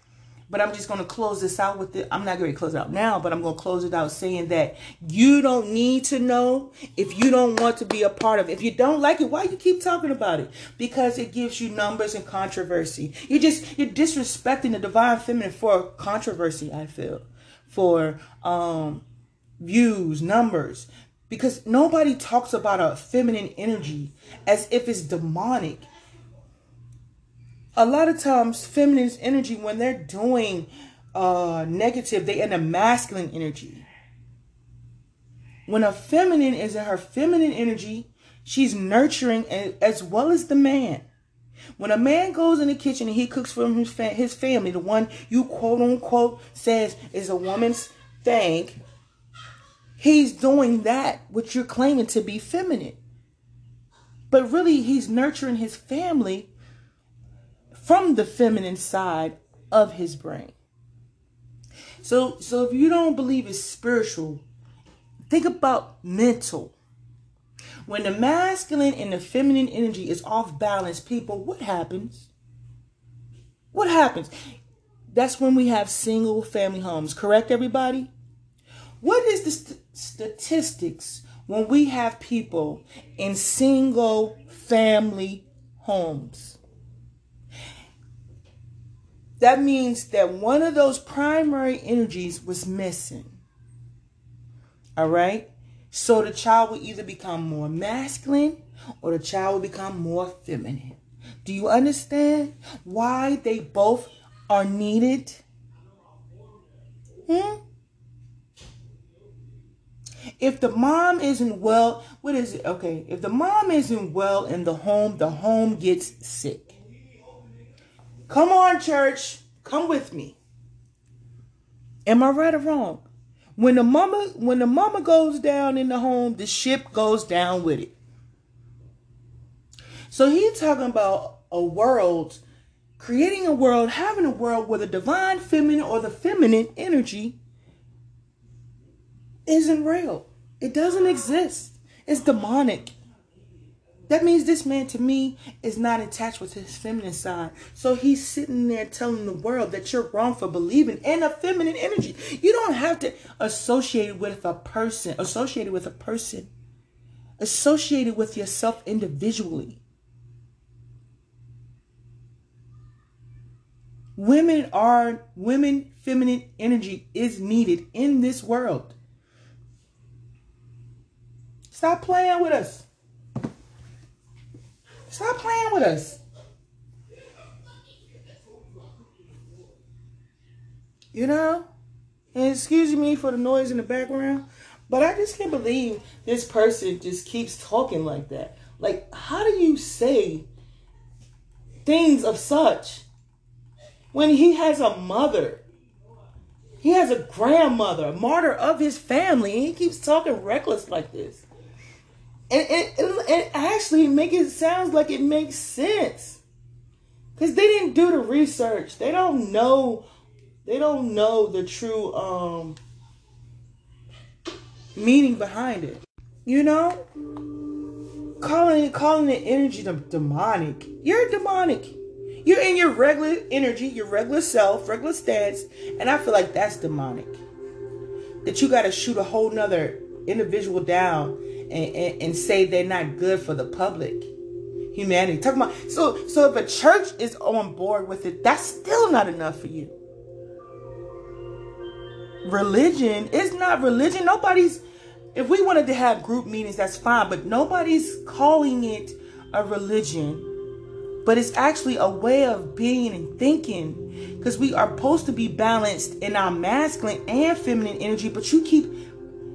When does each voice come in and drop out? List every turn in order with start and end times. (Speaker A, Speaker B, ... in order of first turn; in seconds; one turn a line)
Speaker A: 0.5-19.0
Speaker A: 19.6-25.9
Speaker A: 27.8-33.9
Speaker A: 35.7-41.0
Speaker A: 41.8-48.8
Speaker A: 50.0-53.0
Speaker A: 54.3-56.5
Speaker A: 57.7-60.5
Speaker A: 62.0-64.5
Speaker A: 65.3-66.8
Speaker A: 67.9-72.3
Speaker A: 73.7-74.3
Speaker A: 75.1-78.1
Speaker A: 79.0-86.6
Speaker A: 89.4-93.4
Speaker A: 95.0-105.4
Speaker A: 107.3-107.6
Speaker A: 110.4-116.8
Speaker A: 118.3-120.4
Speaker A: 122.1-123.0
Speaker A: 123.6-127.9
Speaker A: 130.1-132.4
Speaker A: 133.0-137.4
Speaker A: 139.5-142.9
Speaker A: 144.1-156.5
Speaker A: 157.4-159.8
Speaker A: 164.2-169.0
Speaker A: 171.7-172.9
Speaker A: 175.1-176.2
Speaker A: 181.1-181.7
Speaker A: 182.3-190.5
Speaker A: 191.8-193.1
Speaker A: 194.1-195.6
Speaker A: 196.8-201.4
Speaker A: 202.5-206.4
Speaker A: 207.4-210.1
Speaker A: 210.7-212.8
Speaker A: 215.0-217.0
Speaker A: 218.4-227.4
Speaker A: 228.4-234.3
Speaker A: 234.9-240.0
Speaker A: 242.4-244.8
Speaker A: 245.3-250.5
Speaker A: 251.2-258.9